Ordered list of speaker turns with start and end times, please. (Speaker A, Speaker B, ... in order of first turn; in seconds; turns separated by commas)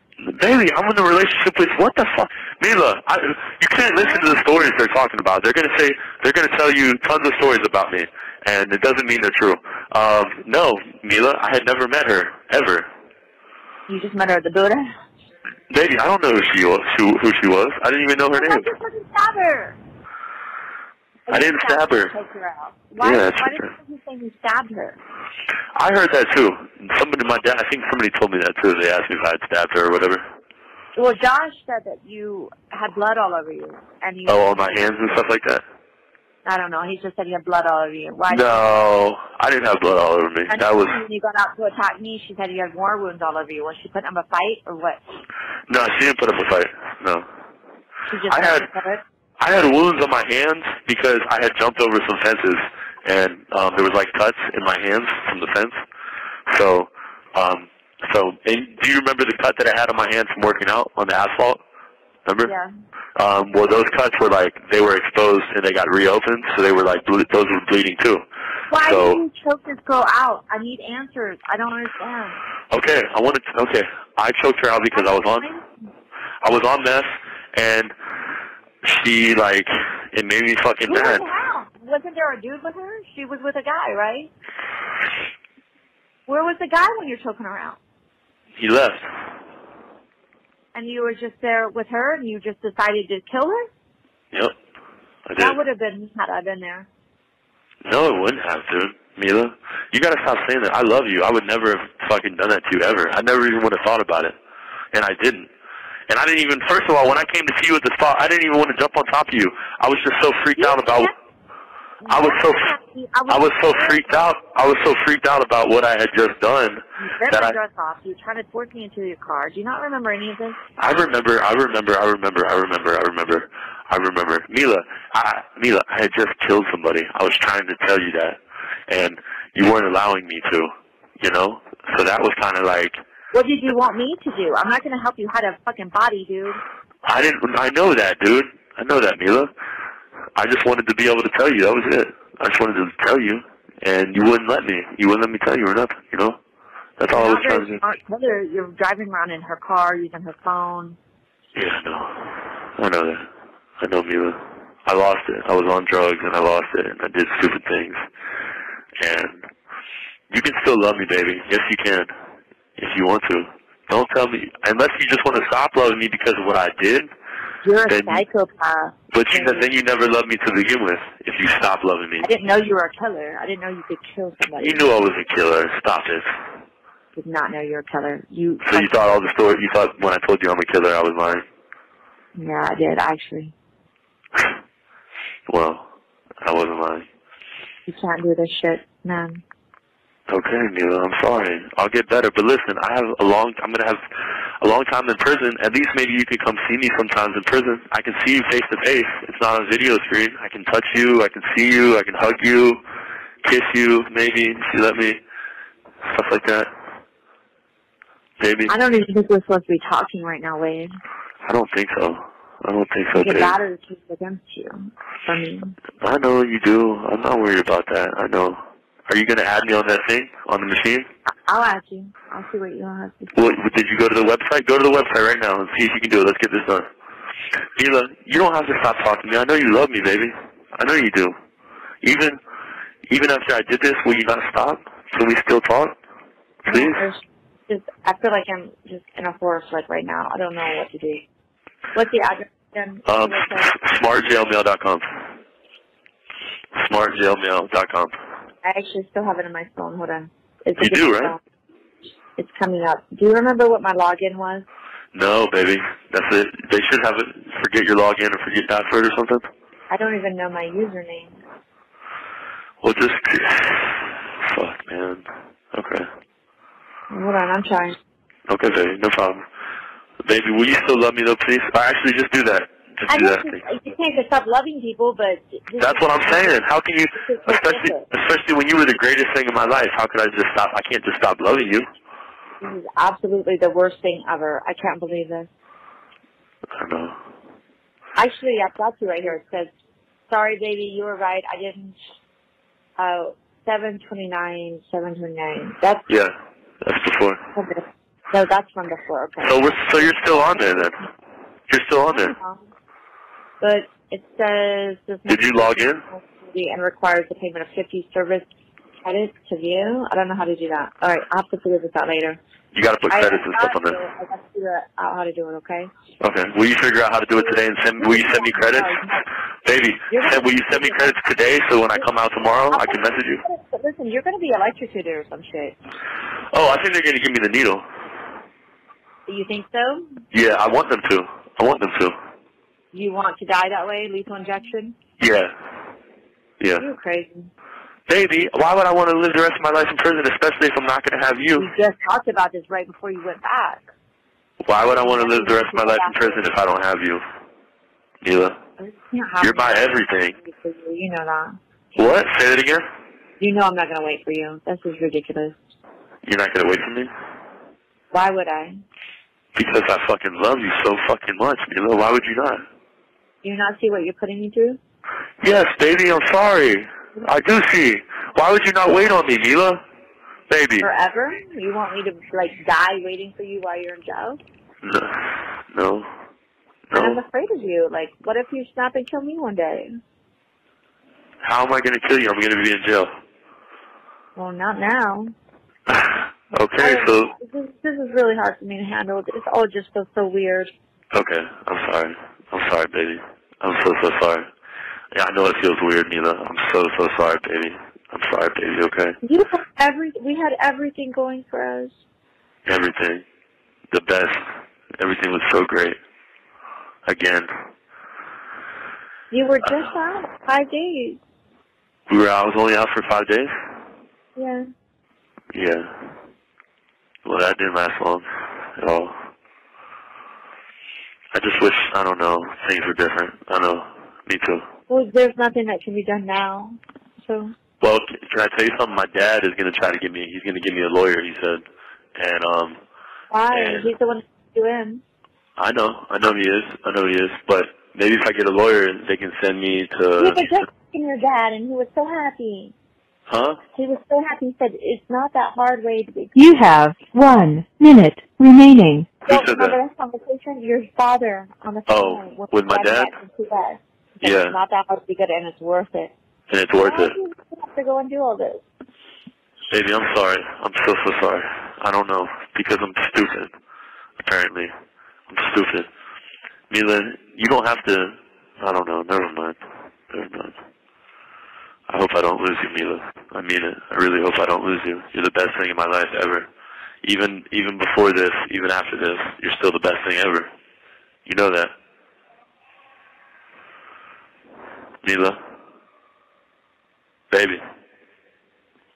Speaker A: 0.2-12.9, Speaker B: 13.9-14.9, Speaker A: 15.7-18.6, Speaker B: 18.3-19.8, Speaker B: 21.3-25.0, Speaker A: 21.3-22.1, Speaker A: 23.0-23.7, Speaker A: 25.8-30.2, Speaker B: 30.9-34.9, Speaker A: 34.3-35.6, Speaker B: 36.4-38.7, Speaker A: 38.3-41.0, Speaker B: 40.5-45.0, Speaker A: 45.7-47.2, Speaker B: 48.1-49.0, Speaker A: 48.3-48.7, Speaker A: 49.4-55.7, Speaker A: 56.5-61.6, Speaker A: 62.2-62.5, Speaker B: 62.5-62.7, Speaker A: 63.1-68.2, Speaker B: 68.7-72.4, Speaker A: 68.8-69.2, Speaker A: 72.7-75.5, Speaker B: 74.9-75.7, Speaker A: 76.4-77.9, Speaker A: 78.8-81.2, Speaker B: 80.9-84.3, Speaker B: 86.3-87.8, Speaker A: 88.6-89.0, Speaker B: 90.7-93.7, Speaker A: 95.2-95.6, Speaker B: 95.4-96.9, Speaker A: 97.8-104.3, Speaker A: 104.9-105.5, Speaker A: 106.1-111.1, Speaker B: 110.6-111.1, Speaker B: 112.0-114.2, Speaker A: 112.1-112.7, Speaker A: 113.3-117.6, Speaker B: 117.0-120.6, Speaker A: 120.8-133.0, Speaker B: 133.3-136.6, Speaker A: 137.0-139.5, Speaker A: 140.3-146.4, Speaker A: 147.0-147.8, Speaker B: 147.1-151.0, Speaker A: 151.5-153.3, Speaker A: 153.8-158.0, Speaker A: 159.0-159.4, Speaker A: 160.3-162.1, Speaker A: 162.8-167.1, Speaker B: 167.6-169.7, Speaker A: 167.9-168.2, Speaker A: 169.1-172.3, Speaker B: 172.2-174.8, Speaker A: 174.6-176.3, Speaker B: 177.2-179.0, Speaker A: 178.6-181.4, Speaker B: 182.3-183.5, Speaker A: 185.5-185.8, Speaker A: 186.4-187.1, Speaker B: 187.9-189.4, Speaker A: 190.3-194.0, Speaker A: 194.6-202.8, Speaker A: 203.4-205.2, Speaker A: 206.0-206.7, Speaker A: 208.4-208.7, Speaker B: 208.7-210.9, Speaker A: 211.4-213.6, Speaker B: 213.1-215.8, Speaker A: 216.0-221.1, Speaker B: 221.5-223.4, Speaker A: 223.3-226.9, Speaker A: 227.8-231.3, Speaker A: 232.0-232.4, Speaker A: 233.1-235.9, Speaker A: 236.7-237.0, Speaker B: 236.7-241.2, Speaker B: 241.9-243.8, Speaker A: 243.1-245.0, Speaker A: 246.7-248.2, Speaker B: 248.6-251.4, Speaker A: 250.8-251.3, Speaker B: 252.4-254.7, Speaker A: 255.1-259.5, Speaker B: 259.9-261.3, Speaker A: 262.8-266.1, Speaker B: 267.1-267.9, Speaker A: 268.5-269.4, Speaker A: 270.2-273.6, Speaker B: 273.1-276.6, Speaker A: 275.8-281.9, Speaker B: 277.2-278.0, Speaker B: 282.6-285.5, Speaker A: 286.7-287.2, Speaker B: 288.1-289.7, Speaker B: 290.3-291.9, Speaker B: 293.0-296.1, Speaker A: 296.1-297.4, Speaker B: 297.5-301.1, Speaker A: 299.4-300.9, Speaker A: 301.7-302.3, Speaker B: 302.1-302.6, Speaker B: 303.6-308.5, Speaker A: 305.3-306.0, Speaker B: 309.0-312.4, Speaker A: 312.7-314.0, Speaker B: 313.1-315.9, Speaker A: 316.2-318.9, Speaker B: 317.4-319.2, Speaker A: 319.6-323.4, Speaker B: 320.1-321.2, Speaker B: 322.7-325.8, Speaker A: 326.5-327.8, Speaker B: 329.3-330.2, Speaker A: 330.3-332.1, Speaker B: 332.9-335.0, Speaker A: 335.2-335.5, Speaker A: 336.6-336.8, Speaker B: 336.8-337.5, Speaker A: 338.1-341.7, Speaker B: 341.6-343.9, Speaker A: 344.6-347.2, Speaker B: 344.9-346.4, Speaker A: 348.2-348.6, Speaker B: 348.8-351.6, Speaker A: 349.4-350.3, Speaker A: 351.9-352.8, Speaker B: 353.4-355.5, Speaker A: 356.2-357.1, Speaker B: 358.1-358.8, Speaker A: 359.5-362.6, Speaker B: 363.4-364.8, Speaker A: 365.4-369.8, Speaker A: 370.5-370.9, Speaker B: 370.8-374.4, Speaker A: 374.8-376.1, Speaker A: 376.9-377.2, Speaker B: 376.9-379.9, Speaker A: 381.4-383.1, Speaker B: 384.4-385.3, Speaker A: 385.9-387.3, Speaker B: 386.8-390.7, Speaker A: 391.1-394.5, Speaker A: 395.1-399.2, Speaker B: 399.2-401.9, Speaker A: 402.6-403.2, Speaker A: 403.9-404.4, Speaker A: 405.0-406.0, Speaker A: 407.1-407.5, Speaker B: 409.3-411.2, Speaker A: 412.1-413.5, Speaker B: 414.4-414.6, Speaker A: 415.5-415.9, Speaker A: 417.2-418.2, Speaker A: 418.8-419.1, Speaker A: 421.3-424.6, Speaker B: 424.9-427.5, Speaker A: 427.8-431.6, Speaker A: 432.1-432.8, Speaker B: 433.3-435.0, Speaker A: 433.5-433.9, Speaker A: 435.6-440.5, Speaker B: 440.2-442.7, Speaker A: 443.3-443.6, Speaker B: 443.7-446.3, Speaker C: 446.3-449.1, Speaker A: 449.2-449.8, Speaker B: 449.3-456.1, Speaker A: 451.9-453.1, Speaker A: 454.2-454.6, Speaker A: 456.5-457.1, Speaker B: 456.8-458.6, Speaker A: 459.7-463.5, Speaker A: 464.2-464.7, Speaker A: 465.3-465.9, Speaker A: 466.7-470.6, Speaker A: 471.9-476.5, Speaker A: 477.0-480.5, Speaker A: 481.2-481.7, Speaker A: 485.0-485.4, Speaker A: 487.3-487.6